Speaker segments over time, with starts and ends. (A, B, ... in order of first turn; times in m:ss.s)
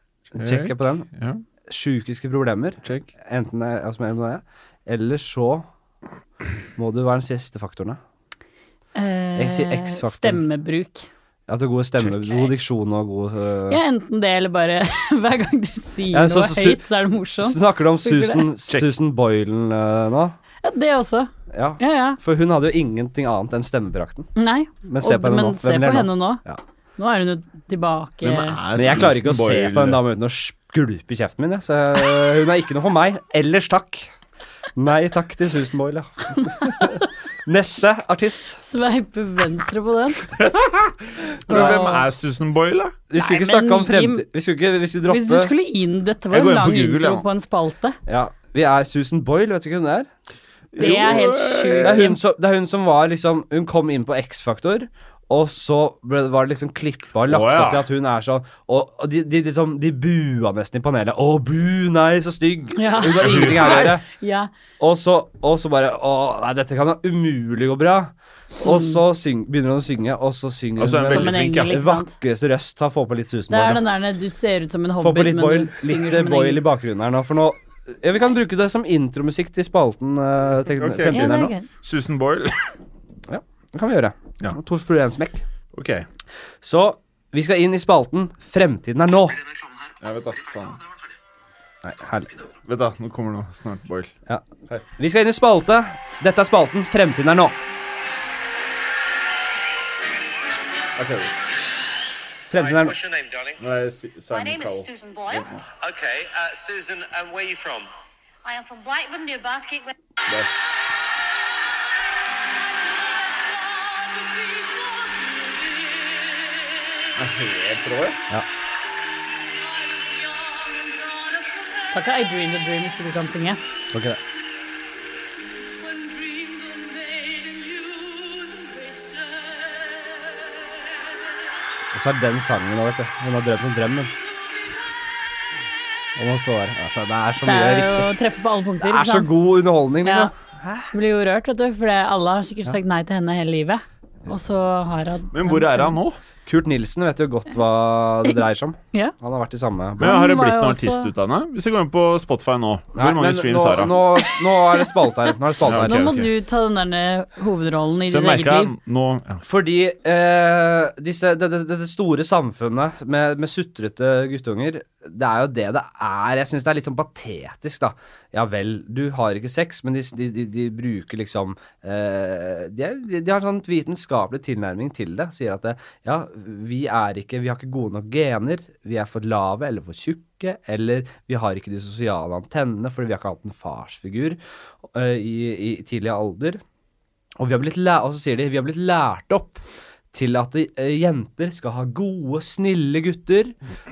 0:00.3-0:01.1 A
0:00.3-0:01.4 B
0:01.7-0:05.6 A
0:02.8-0:03.1 B
0:06.8-0:08.0 A
0:08.9-0:11.1 C
0:09.4-0:10.4 A
0:11.5-0:13.8 A
0:13.7-0:18.5 C
0:16.1-0:16.8 A
0:17.4-0:20.4 A
0:20.6-0:22.2 C
0:21.5-0:24.3 A
0:24.4-0:26.4 C
0:24.8-0:26.6 A
0:27.0-0:28.6 C
0:28.2-0:30.0 B
0:28.7-0:34.1 A
0:34.7-0:38.6 A
0:36.4-0:37.0 C
0:38.6-0:40.3 C
0:41.4-0:41.9 A
0:41.5-0:42.0 C
0:41.5-0:43.0 B
0:43.1-0:45.5 A
0:43.2-0:44.2 C
0:45.1-0:48.0 C
0:46.3-0:47.2 B
0:48.1-0:50.1 A
0:50.7-0:52.2 B
0:50.8-0:52.2 C
0:51.8-1:04.0 A
0:57.3-0:57.8 B
1:02.8-1:04.5 C
1:03.2-1:03.9 B
1:04.8-1:13.8 A
1:08.6-1:09.0 C
1:10.8-1:11.8 B
1:11.0-1:12.1 C
1:13.5-1:16.6 C
1:15.0-1:21.5 A
1:20.7-1:22.7 B
1:21.1-1:21.7 C
1:23.3-1:25.4 A
1:25.7-1:26.1 B
1:26.6-1:29.4 A
1:30.0-1:30.8 B
1:31.8-1:32.3 A
1:32.6-1:34.1 B
1:34.3-1:37.6 A
1:41.0-1:41.3 B
1:42.5-1:43.0 A
1:42.6-1:43.6 D
1:43.6-1:45.6 B
1:44.3-1:45.4 E
1:45.8-1:47.9 D
1:48.4-1:49.9 E
1:50.3-1:50.5 B
1:57.1-1:58.2 B
2:00.8-2:01.6 E
2:01.9-2:03.6 C
2:03.9-2:04.2 A
2:06.5-2:06.8 C
2:07.8-2:08.4 C
2:11.9-2:14.1 A
2:16.2-2:18.1 A
2:17.4-2:20.3 C
2:18.8-2:20.9 A
2:20.9-2:26.0 C
2:25.3-2:26.2 B
2:26.4-2:30.2 A
2:30.0-2:31.1 C
2:30.0-2:34.0 B
2:32.9-2:36.1 A
2:35.6-2:36.3 B
2:35.6-2:38.7 C
2:38.1-2:39.4 B
2:39.4-3:04.4 A
3:04.9-3:06.6 A
3:07.4-3:13.5 A